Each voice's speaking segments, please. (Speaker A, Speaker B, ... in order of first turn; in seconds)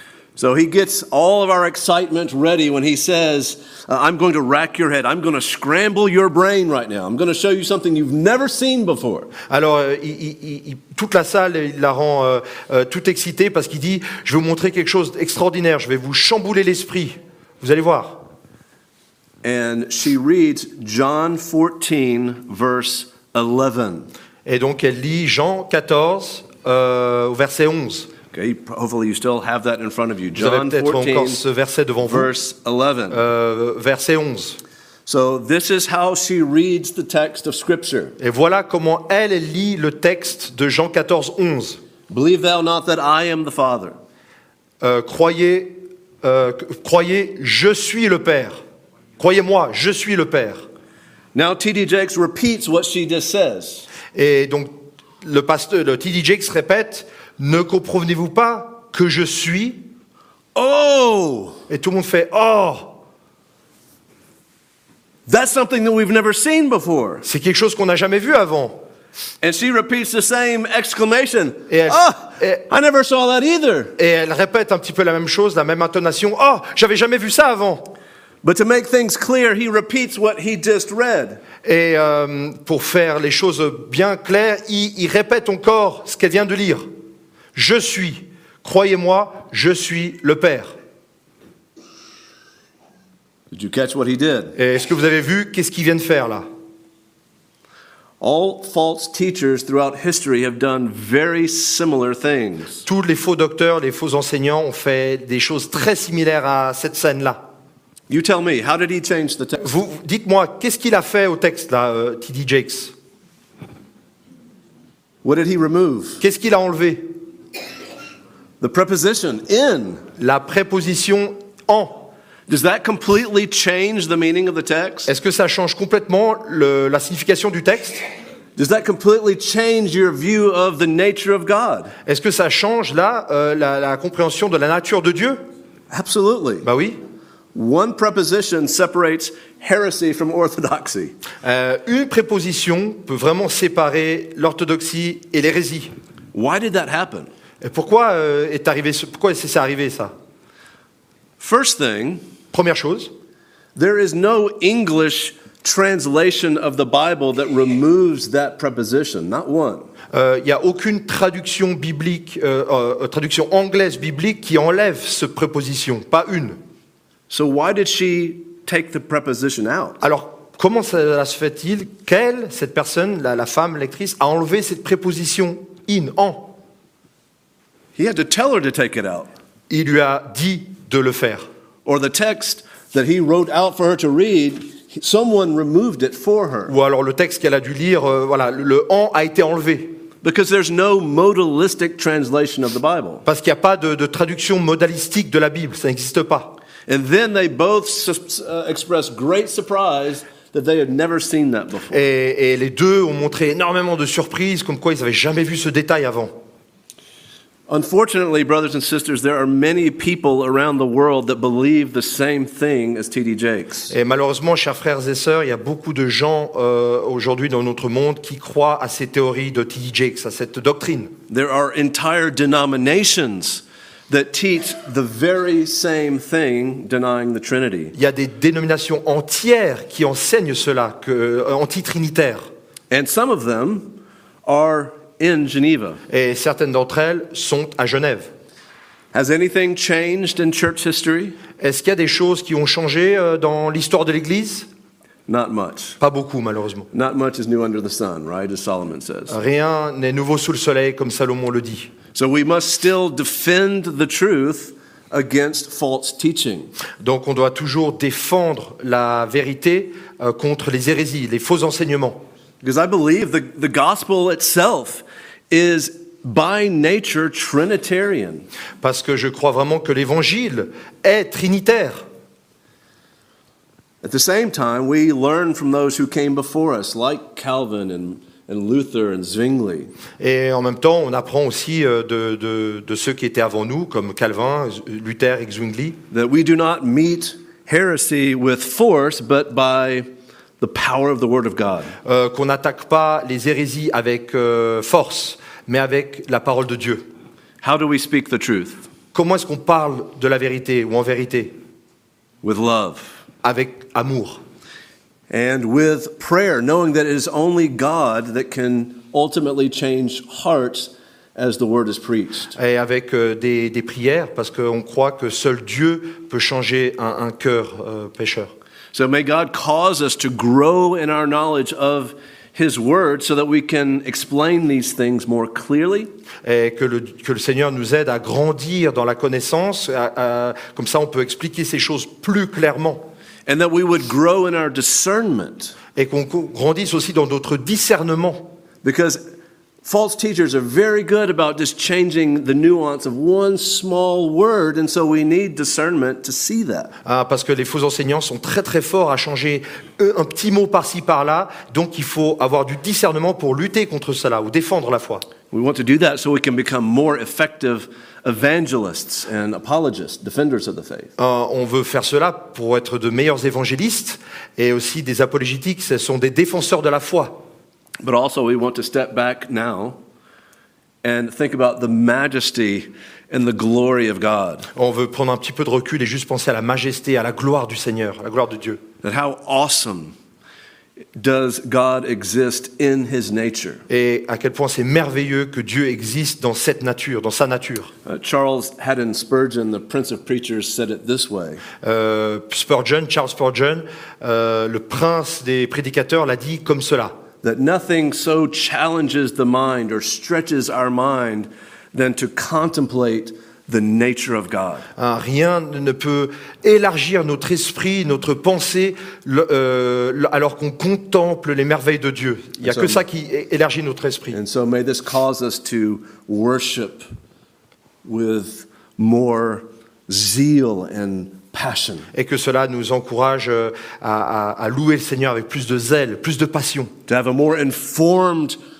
Speaker A: 0.3-9.3, 19.4-24.1, 28.3-31.4, 32.0-33.2, 35.0-38.1, 42.1-43.9, 51.3-53.9, 60.5-61.6, 65.3-67.2, 69.4-73.9, 78.4-81.4, 93.5-94.5, 98.2-102.8, 108.1-109.7, 115.2-116.2, 118.6-120.0, 122.5-125.1, 128.6-131.9, 135.9-136.7, 137.5-141.1, 146.3-147.3, 151.4-152.2, 153.8-159.8, 167.3-170.0, 177.9-179.3, 181.8-186.7, 190.2-193.2, 196.9-202.0, 207.7-213.9, 221.3-227.9, 232.9-233.9, 234.4-236.0, 239.1-241.3, 245.3-246.0, 246.9-249.3, 252.1-256.7, 262.6-268.4, 274.0-279.9, 286.1-290.1, 290.6-291.9, 297.6-298.8, 302.4-303.1, 305.3-312.5, 318.9-326.1, 333.5-335.7, 338.8-339.2, 339.8-346.9, 355.5-361.1, 368.0-370.0, 371.0-374.7, 379.0-380.1, 381.1-383.8, 388.0-391.6, 397.4-404.9, 412.6-413.0, 414.3-417.1, 418.0-422.1, 427.1-428.6
Speaker B: 9.5-18.2, 24.4-28.1, 30.4-32.3, 33.1-34.6, 38.2-41.8, 44.8-48.6, 49.2-50.6, 54.1-59.8, 61.7-63.0, 67.2-68.8, 71.7-72.6, 74.0-77.9, 81.6-86.8, 87.5-90.7, 94.5-96.5, 102.8-107.4, 109.6-112.9, 116.2-117.1, 120.2-122.1, 125.1-128.0, 132.1-135.4, 136.6-137.0, 141.4-145.9, 147.6-150.1, 152.5-153.1, 160.1-166.6, 170.0-176.5, 179.7-181.4, 186.7-189.9, 193.2-196.5, 201.9-206.3, 213.9-221.1, 227.9-232.5, 236.1-238.3, 241.6-244.7, 246.0-246.9, 249.3-251.9, 257.0-262.2, 268.8-272.0, 280.2-286.0, 292.0-297.0, 299.1-301.5, 303.4-304.4, 312.5-318.5, 326.4-333.1, 335.9-338.5, 347.0-355.2, 361.2-367.4, 374.7-378.8, 383.9-387.9, 391.8-397.1, 405.0-414.4, 422.1-426.9